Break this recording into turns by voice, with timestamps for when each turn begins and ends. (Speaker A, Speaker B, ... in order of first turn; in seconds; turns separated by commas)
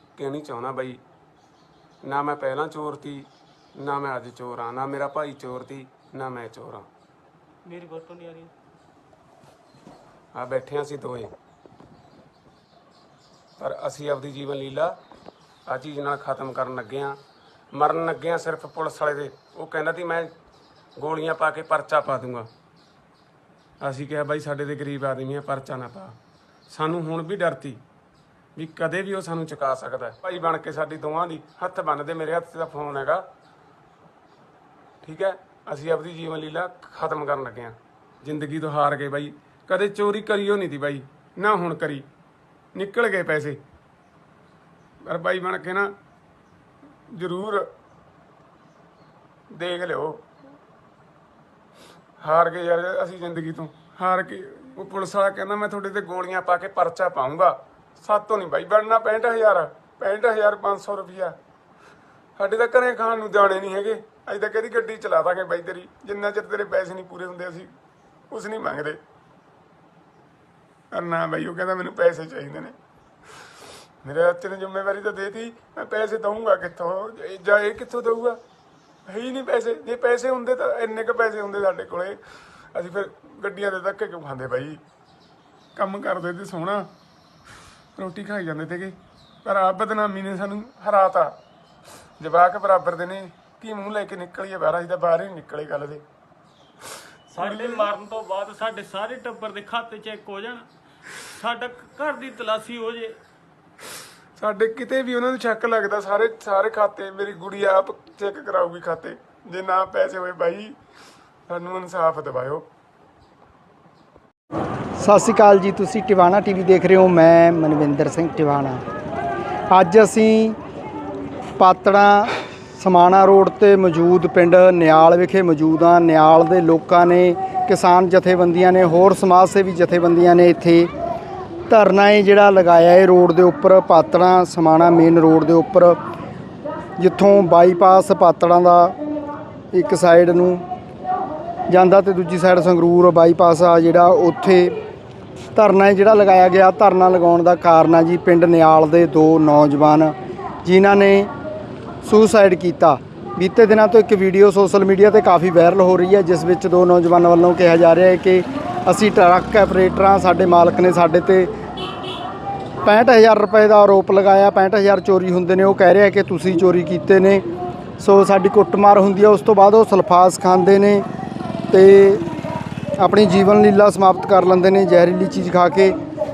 Speaker A: 0.2-1.0, Speaker A: 2.0-6.9, Speaker B: 7.7-8.5, Speaker A: 10.3-11.3, Speaker A: 13.6-14.9, Speaker A: 15.7-17.2, Speaker A: 17.7-20.3, Speaker A: 21.0-22.5, Speaker A: 23.8-26.1, Speaker A: 26.7-27.8, Speaker A: 28.6-33.2, Speaker A: 35.0-42.0, Speaker A: 42.7-43.6, Speaker A: 45.0-45.9, Speaker A: 47.1-47.7, Speaker A: 49.5-50.2, Speaker A: 52.2-61.4, Speaker A: 62.4-67.7, Speaker A: 68.3-69.0, Speaker A: 70.9-72.7, Speaker A: 74.0-78.4, Speaker A: 79.0-82.2, Speaker A: 82.7-84.8, Speaker A: 85.7-86.9, Speaker A: 88.0-91.3, Speaker A: 92.2-96.0, Speaker B: 97.3-100.7, Speaker A: 97.4-97.8, Speaker B: 101.4-103.2, Speaker A: 104.4-110.7, Speaker A: 111.5-112.6, Speaker C: 115.0-118.8, Speaker C: 119.7-120.6, Speaker C: 121.6-130.9, Speaker C: 131.7-136.0, Speaker C: 137.0-138.9, Speaker C: 139.7-140.6, Speaker C: 141.7-144.8, Speaker C: 145.5-151.3, Speaker C: 152.0-161.5, Speaker C: 162.8-167.4, Speaker C: 168.0-171.0, Speaker C: 171.7-172.2, Speaker C: 173.0-175.9